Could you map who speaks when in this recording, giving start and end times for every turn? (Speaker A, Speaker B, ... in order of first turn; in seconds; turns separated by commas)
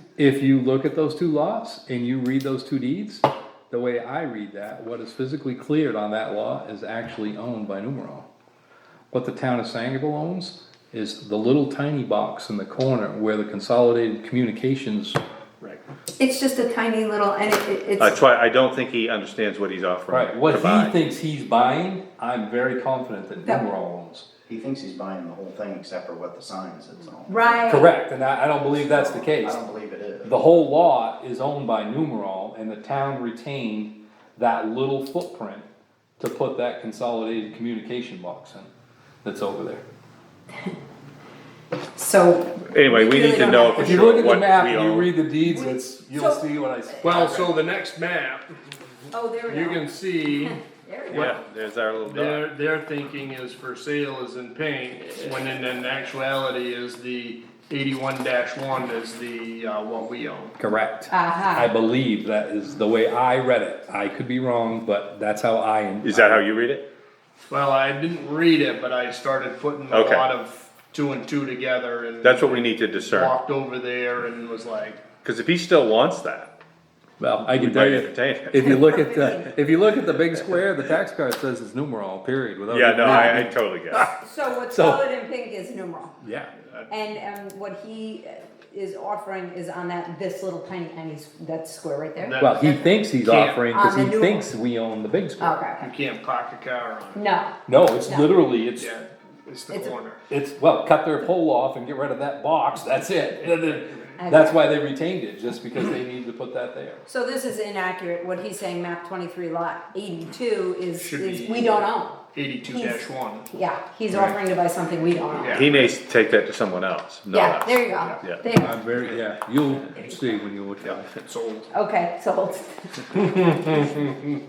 Speaker A: 0.1-8.3, Speaker A: 9.1-15.2, Speaker B: 16.2-18.1, Speaker C: 18.0-20.9, Speaker A: 20.1-24.3, Speaker D: 24.5-27.6, Speaker B: 27.3-27.9, Speaker A: 27.6-29.6, Speaker D: 28.7-30.4, Speaker A: 30.2-35.7, Speaker A: 36.2-38.7, Speaker A: 39.2-39.8, Speaker B: 41.9-44.4, Speaker C: 42.6-45.2, Speaker A: 43.6-47.6, Speaker B: 45.4-46.4, Speaker E: 47.0-48.9, Speaker B: 49.1-51.4, Speaker E: 49.5-51.3, Speaker C: 51.1-52.5, Speaker E: 52.0-60.5, Speaker A: 60.6-66.4, Speaker B: 61.1-61.7, Speaker C: 66.0-66.8, Speaker E: 67.5-75.1, Speaker C: 69.9-70.3, Speaker C: 72.2-73.3, Speaker C: 75.2-76.5, Speaker A: 77.2-84.1, Speaker C: 77.5-78.7, Speaker B: 78.5-79.6, Speaker C: 82.7-84.1, Speaker B: 83.0-83.5, Speaker B: 84.1-86.2, Speaker A: 84.7-85.0, Speaker A: 86.2-86.5, Speaker B: 86.9-92.4, Speaker E: 92.2-93.6, Speaker A: 92.4-95.6, Speaker B: 93.7-94.5, Speaker B: 95.4-95.9, Speaker E: 95.8-97.2, Speaker B: 97.1-98.3, Speaker A: 97.7-98.9, Speaker E: 98.8-100.2, Speaker A: 100.3-107.0, Speaker E: 103.7-103.9, Speaker B: 104.2-104.6, Speaker B: 107.1-115.6, Speaker E: 110.9-113.5, Speaker E: 115.3-116.0, Speaker C: 115.5-118.4, Speaker B: 117.3-118.8, Speaker A: 118.5-121.1, Speaker E: 120.8-121.7, Speaker B: 121.7-123.5, Speaker E: 123.1-124.3